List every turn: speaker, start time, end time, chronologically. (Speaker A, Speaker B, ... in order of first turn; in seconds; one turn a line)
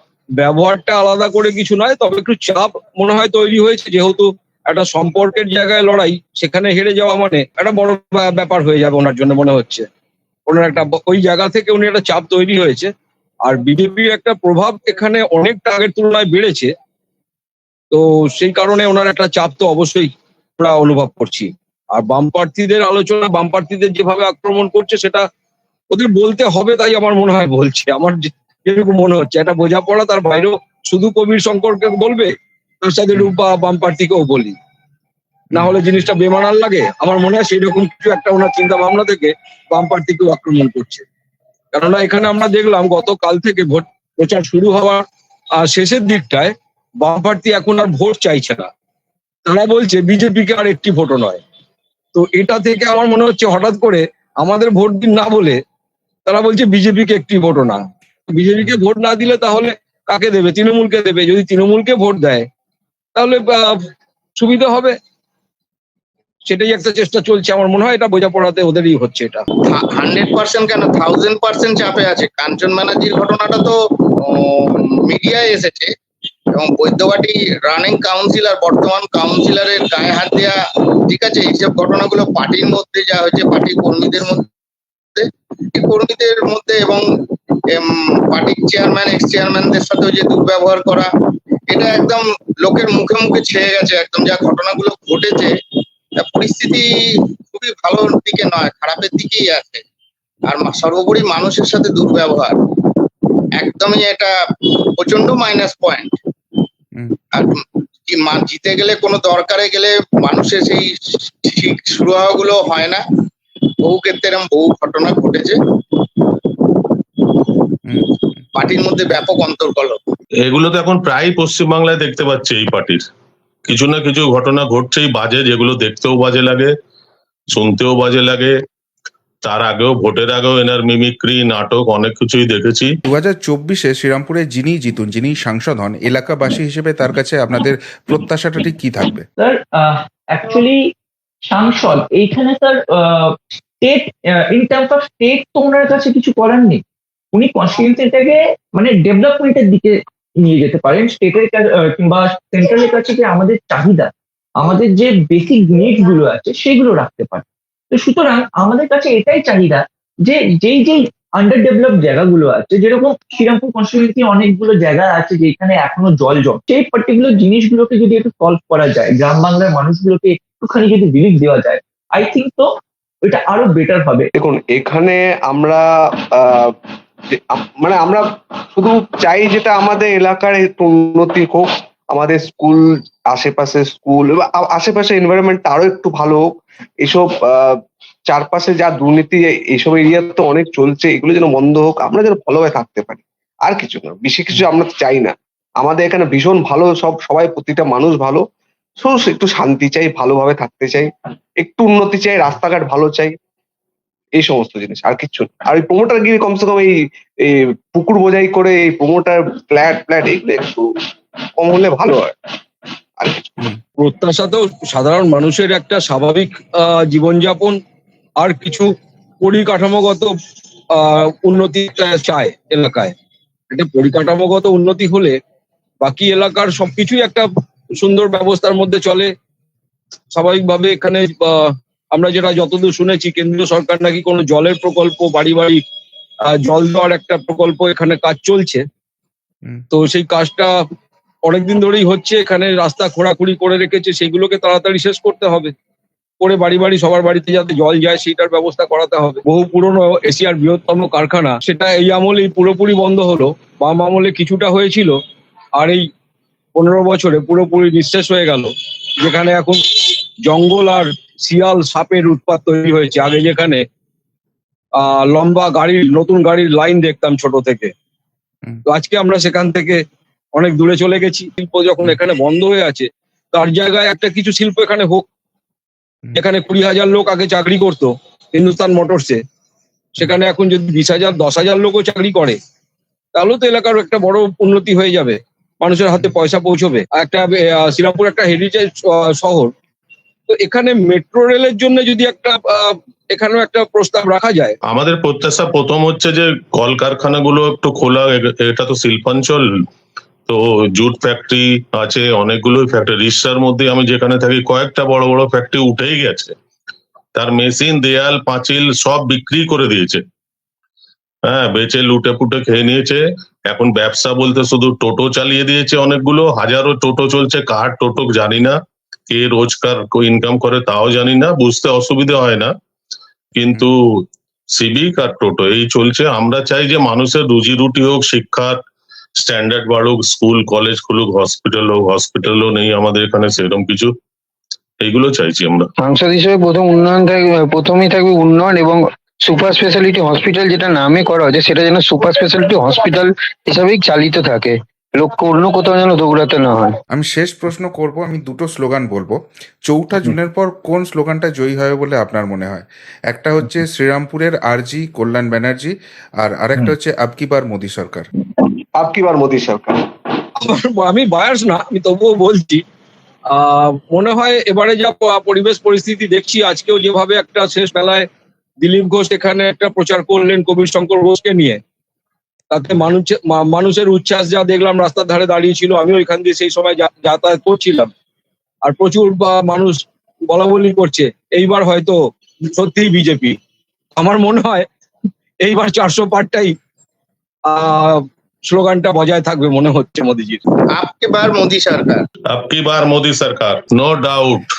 Speaker A: 0.4-9.8
Speaker A: 10.5-12.9
Speaker A: 13.4-16.7
Speaker A: 17.9-25.2
Speaker A: 25.9-32.3
Speaker A: 32.8-34.5
Speaker B: 35.5-35.8
Speaker A: 35.5-41.0
Speaker A: 41.7-45.0
Speaker A: 45.6-48.7
Speaker A: 49.5-51.4
Speaker A: 52.1-55.6
Speaker A: 56.2-62.5
Speaker A: 63.1-64.9
Speaker A: 66.5-69.4
Speaker C: 69.7-75.9
Speaker C: 76.5-80.6
Speaker C: 81.1-84.5
Speaker C: 85.1-87.0
Speaker C: 87.7-91.1
Speaker C: 91.7-95.5
Speaker C: 96.2-96.9
Speaker C: 97.5-99.8
Speaker C: 100.5-103.0
Speaker C: 103.6-106.6
Speaker C: 107.3-113.0
Speaker C: 113.8-117.7
Speaker B: 117.8-118.4
Speaker C: 118.5-120.0
Speaker D: 120.4-123.0
Speaker D: 123.7-126.7
Speaker D: 127.5-128.5
Speaker D: 129.4-132.9
Speaker B: 133.1-139.2
Speaker E: 139.4-140.8
Speaker E: 141.5-146.8
Speaker E: 147.3-172.7
Speaker E: 173.2-174.3
Speaker F: 174.4-176.7
Speaker F: 177.5-178.2
Speaker F: 178.7-187.7
Speaker F: 188.3-198.4
Speaker F: 199.0-203.3
Speaker F: 204.4-206.9
Speaker F: 207.4-210.8
Speaker F: 211.6-212.3
Speaker F: 213.2-213.7
Speaker A: 214.0-217.8
Speaker A: 218.4-218.9
Speaker A: 219.4-220.3
Speaker A: 220.9-223.1
Speaker A: 223.7-225.3
Speaker A: 226.0-229.3
Speaker A: 230.3-235.8
Speaker A: 236.5-238.8
Speaker A: 239.9-240.7
Speaker A: 241.4-245.7
Speaker A: 246.4-255.1
Speaker A: 255.8-256.1
Speaker A: 256.8-263.8
Speaker A: 265.0-267.9
Speaker A: 268.9-270.0
Speaker A: 270.5-275.2
Speaker A: 276.3-279.4
Speaker A: 280.2-282.6
Speaker A: 283.3-289.7
Speaker A: 290.5-294.8
Speaker D: 294.9-299.9
Speaker D: 300.5-306.5
Speaker D: 307.3-310.2
Speaker D: 311.5-318.7
Speaker D: 319.3-322.7
Speaker D: 323.5-323.9
Speaker D: 324.7-328.8
Speaker D: 329.4-334.1
Speaker D: 335.0-335.9
Speaker G: 336.0-346.9
Speaker B: 347.1-358.3
Speaker F: 358.9-360.0
Speaker A: 360.6-362.8
Speaker A: 363.5-368.2
Speaker A: 368.8-371.8
Speaker A: 372.7-378.1
Speaker A: 378.8-382.2
Speaker A: 382.8-383.6
Speaker A: 384.2-384.9
Speaker A: 385.6-386.7
Speaker A: 387.7-390.6
Speaker C: 390.9-392.2
Speaker D: 392.5-394.7